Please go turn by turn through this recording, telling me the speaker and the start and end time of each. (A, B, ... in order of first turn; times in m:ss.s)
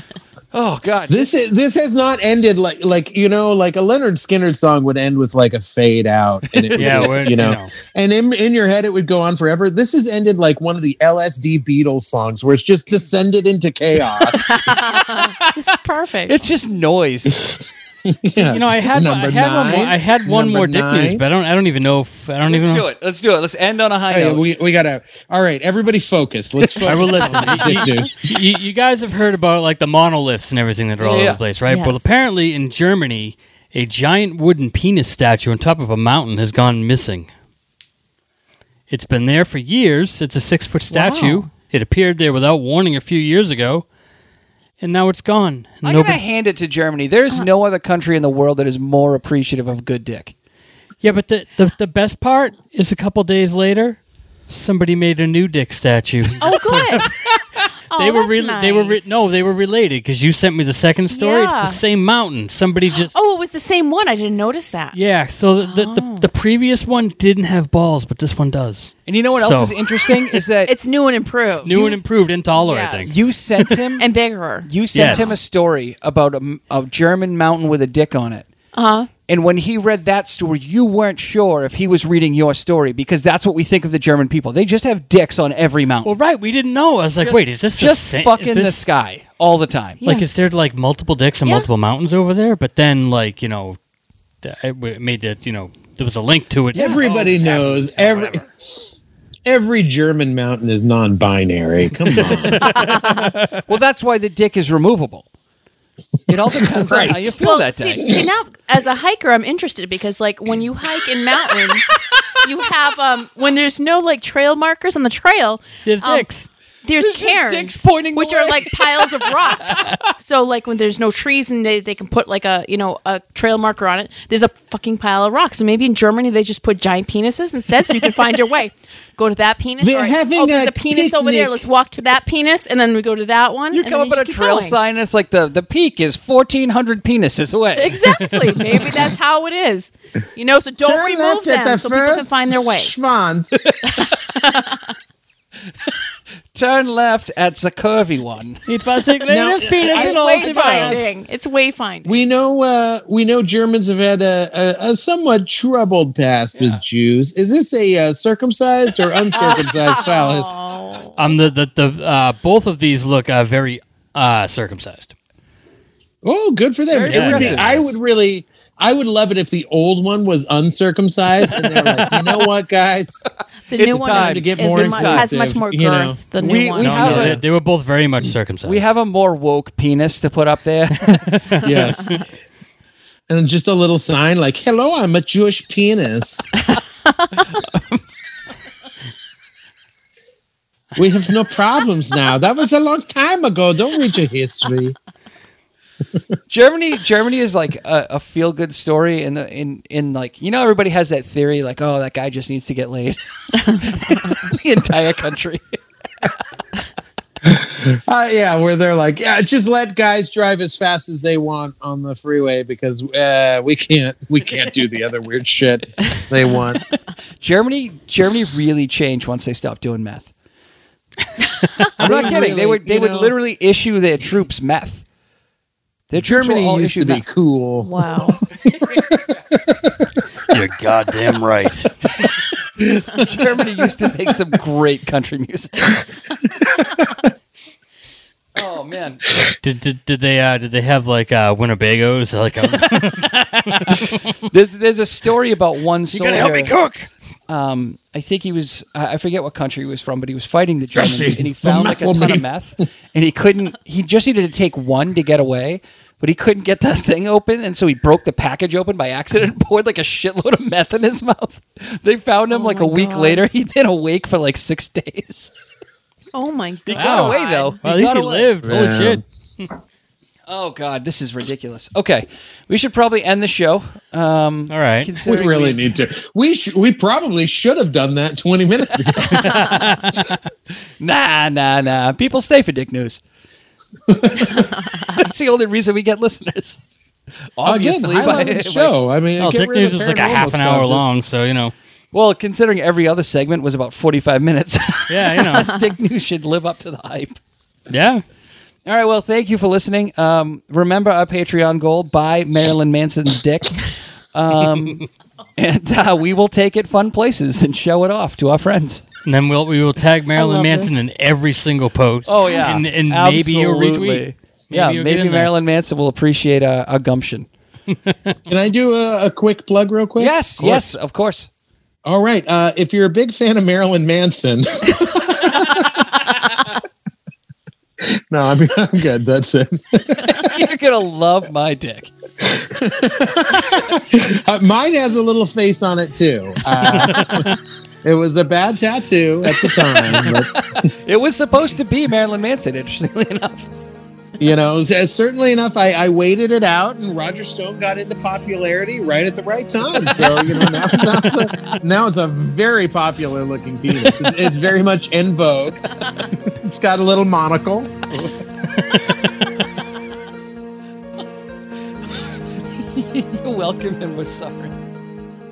0:00.5-0:01.3 A
0:01.1-0:14.6 B
0:06.5-0:07.3 A
0:06.8-0:07.7 C
0:14.5-0:16.4 D
0:15.1-0:15.7 A
0:16.3-0:17.4 A
0:17.4-0:21.2 B
0:18.4-0:22.8 C
0:22.5-0:24.5 A
0:24.1-0:28.2 B
0:26.8-0:28.2 D
0:26.8-0:37.3 C
0:31.0-0:31.4 A
0:31.7-0:32.1 D
0:38.9-0:43.8 C
0:40.9-0:41.5 D
0:44.8-0:46.2 C
0:45.8-0:50.3 A
0:51.0-0:57.1 C
0:56.4-0:57.1 D
0:57.9-0:59.3 D
0:58.0-1:03.1 C
1:01.1-1:01.8 D
1:03.0-1:05.0 D
1:04.9-1:10.4 C
1:05.6-1:06.3 D
1:09.1-1:10.7 A
1:10.6-1:12.0 D
1:11.6-1:13.6 C
1:12.6-1:13.3 D
1:13.1-1:14.1 A
1:14.0-1:15.4 D
1:14.6-1:18.5 A
1:15.0-1:15.4 C
1:18.7-1:19.1 D
1:19.3-1:26.2 A
1:26.0-1:28.8 C
1:27.2-1:30.0 A
1:30.0-1:30.3 D
1:30.0-1:33.8 C
1:34.4-1:38.4 C
1:36.7-1:38.4 B
1:36.8-1:37.3 A
1:39.5-1:42.8 B
1:42.1-1:43.6 C
1:42.7-1:43.3 D
1:43.7-1:45.3 A
1:46.3-1:48.0 A
1:46.5-1:47.4 B
1:47.4-1:56.3 D
1:55.8-1:56.5 C
1:56.8-2:14.8 D
1:57.0-2:00.0 A
2:09.8-2:11.6 B
2:13.7-2:18.0 A
2:17.8-2:22.9 D
2:20.8-2:23.6 B
2:23.6-2:24.0 A
2:24.0-2:24.9 D
2:26.5-2:28.6 A
2:28.7-2:31.0 C
2:29.3-2:31.1 B
2:29.7-2:32.2 D
2:32.0-2:40.6 B
2:36.5-2:36.8 A
2:39.4-2:41.3 D
2:41.2-2:45.1 C
2:46.2-2:56.2 B
2:46.9-2:47.8 A
2:47.1-2:47.9 C
2:51.5-2:52.4 A
2:53.7-2:57.3 D
2:53.8-2:55.3 A
2:56.4-2:57.4 A
2:56.8-2:58.9 C
2:57.0-2:57.4 B
2:58.6-3:01.7 A
3:01.6-3:02.1 D
3:01.6-3:02.2 B
3:03.3-3:06.5 B
3:07.5-3:08.0 A
3:11.0-3:15.0 B
3:16.5-3:23.2 A
3:23.8-3:25.8 A
3:27.4-3:36.8 B
3:36.9-3:40.3 A
3:42.0-3:43.3 B
3:42.0-3:45.0 A
3:46.1-3:47.2 A
3:46.2-3:47.9 B
3:47.8-3:48.4 D
3:48.7-3:50.1 B
3:50.5-3:51.9 C
3:52.8-3:54.3 B
3:53.2-3:56.0 A
3:56.4-3:57.3 B
3:58.6-3:59.2 A
3:59.6-4:04.3 C
4:03.0-4:06.7 A
4:06.1-4:07.1 C
4:07.5-4:25.5 A
4:10.9-4:12.4 B
4:22.5-4:23.5 D
4:26.3-4:27.8 D
4:26.9-4:28.6 A
4:26.9-4:29.2 C
4:28.6-4:29.2 B
4:30.5-4:35.8 A
4:34.7-4:35.1 C
4:35.2-4:39.5 B
4:39.4-4:40.4 C
4:41.0-4:43.2 A
4:44.1-4:44.6 B
4:44.5-4:46.8 A
4:47.6-4:48.9 A
4:47.6-4:51.0 B
4:49.4-4:51.7 C
4:52.1-4:57.4 A
4:55.1-4:55.7 C
4:57.9-4:58.2 C
4:58.9-5:05.0 A
5:04.7-5:05.0 C
5:05.6-5:09.0 A
5:09.3-5:15.5 C
5:10.3-5:11.1 D
5:12.3-5:17.5 A
5:12.4-5:12.8 D
5:18.1-5:18.3 C
5:18.5-5:20.9 B
5:20.2-5:21.5 A
5:22.0-5:26.2 B
5:28.0-5:30.6 B
5:30.2-5:32.1 A
5:32.4-5:40.5 B
5:36.9-5:37.5 C
5:39.5-5:43.7 A
5:44.4-5:58.3 B
5:50.1-5:51.8 A
6:02.8-6:04.7 A